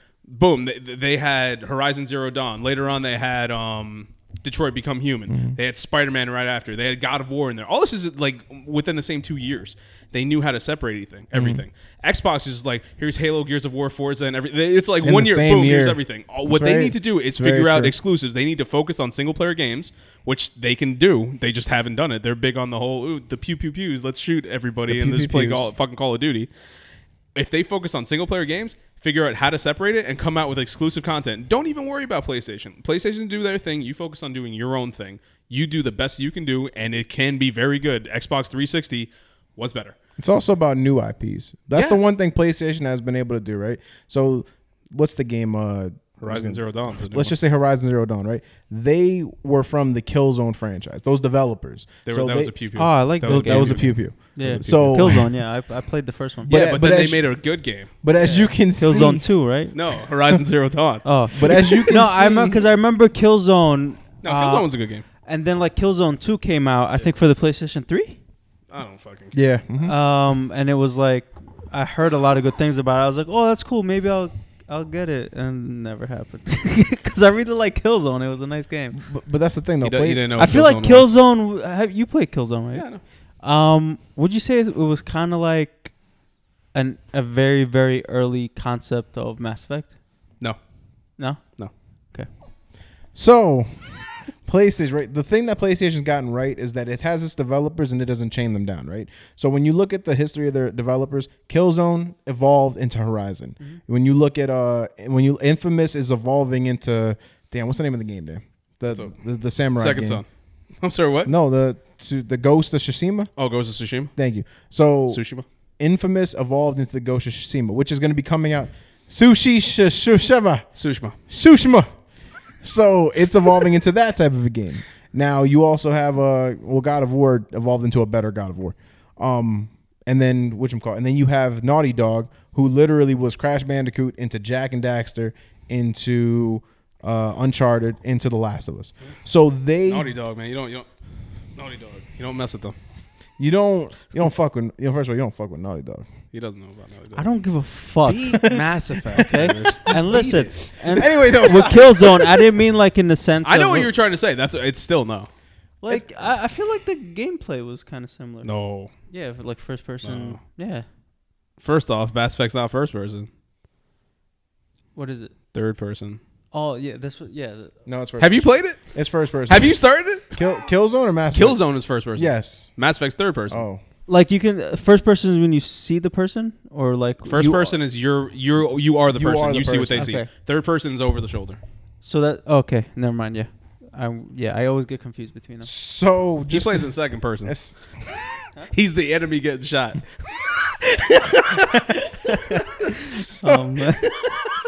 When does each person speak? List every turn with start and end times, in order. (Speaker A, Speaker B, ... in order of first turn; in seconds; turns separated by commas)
Speaker A: 0.3-26.5, Speaker B: 5.3-5.6, Speaker B: 11.3-11.6, Speaker B: 15.0-17.9, Speaker B: 24.9-25.7, Speaker A: 27.3-40.0, Speaker B: 40.2-52.5, Speaker A: 41.7-42.0, Speaker A: 46.2-47.4, Speaker A: 52.0-55.2, Speaker C: 52.8-56.5, Speaker B: 53.2-55.3, Speaker A: 56.4-57.9, Speaker B: 56.5-57.2, Speaker B: 58.0-59.3, Speaker C: 58.1-59.7, Speaker A: 59.7-61.0, Speaker C: 61.0-64.7, Speaker B: 61.3-62.6, Speaker A: 64.2-65.0, Speaker C: 65.2-68.2, Speaker A: 68.7-69.4, Speaker B: 69.3-69.9, Speaker C: 69.8-79.0, Speaker B: 78.9-80.7, Speaker A: 79.8-81.1, Speaker C: 80.4-82.8, Speaker A: 82.7-83.0, Speaker C: 83.4-85.9, Speaker C: 86.7-89.9, Speaker C: 91.2-91.4, Speaker B: 93.1-110.2, Speaker A: 109.7-110.2, Speaker A: 110.8-111.3, Speaker B: 111.2-113.3, Speaker A: 113.4-114.1, Speaker B: 114.2-115.2, Speaker A: 115.1-115.4, Speaker B: 115.8-120.7, Speaker A: 120.8-121.2, Speaker B: 121.3-121.9, Speaker B: 122.6-140.1, Speaker A: 139.8-140.8, Speaker A: 141.6-142.7, Speaker B: 143.4-146.1, Speaker A: 146.3-147.2, Speaker C: 147.2-153.9, Speaker A: 148.0-150.5, Speaker B: 148.3-152.5, Speaker A: 153.4-155.3, Speaker C: 155.8-158.5, Speaker A: 158.4-158.9, Speaker C: 159.1-160.8, Speaker A: 160.0-160.4, Speaker A: 161.6-163.3, Speaker C: 164.9-165.3, Speaker A: 165.5-166.2, Speaker C: 166.5-167.7, Speaker B: 167.8-169.7, Speaker A: 168.2-168.8, Speaker A: 169.5-170.4, Speaker B: 170.3-171.6, Speaker A: 171.3-173.6, Speaker B: 172.1-172.7, Speaker B: 173.5-173.8, Speaker C: 174.1-177.8, Speaker A: 177.2-181.6, Speaker B: 179.1-180.1, Speaker C: 180.0-180.3, Speaker C: 182.0-185.7, Speaker B: 185.6-186.9, Speaker A: 186.5-187.7, Speaker B: 187.4-187.7, Speaker A: 188.7-191.6, Speaker C: 193.0-194.2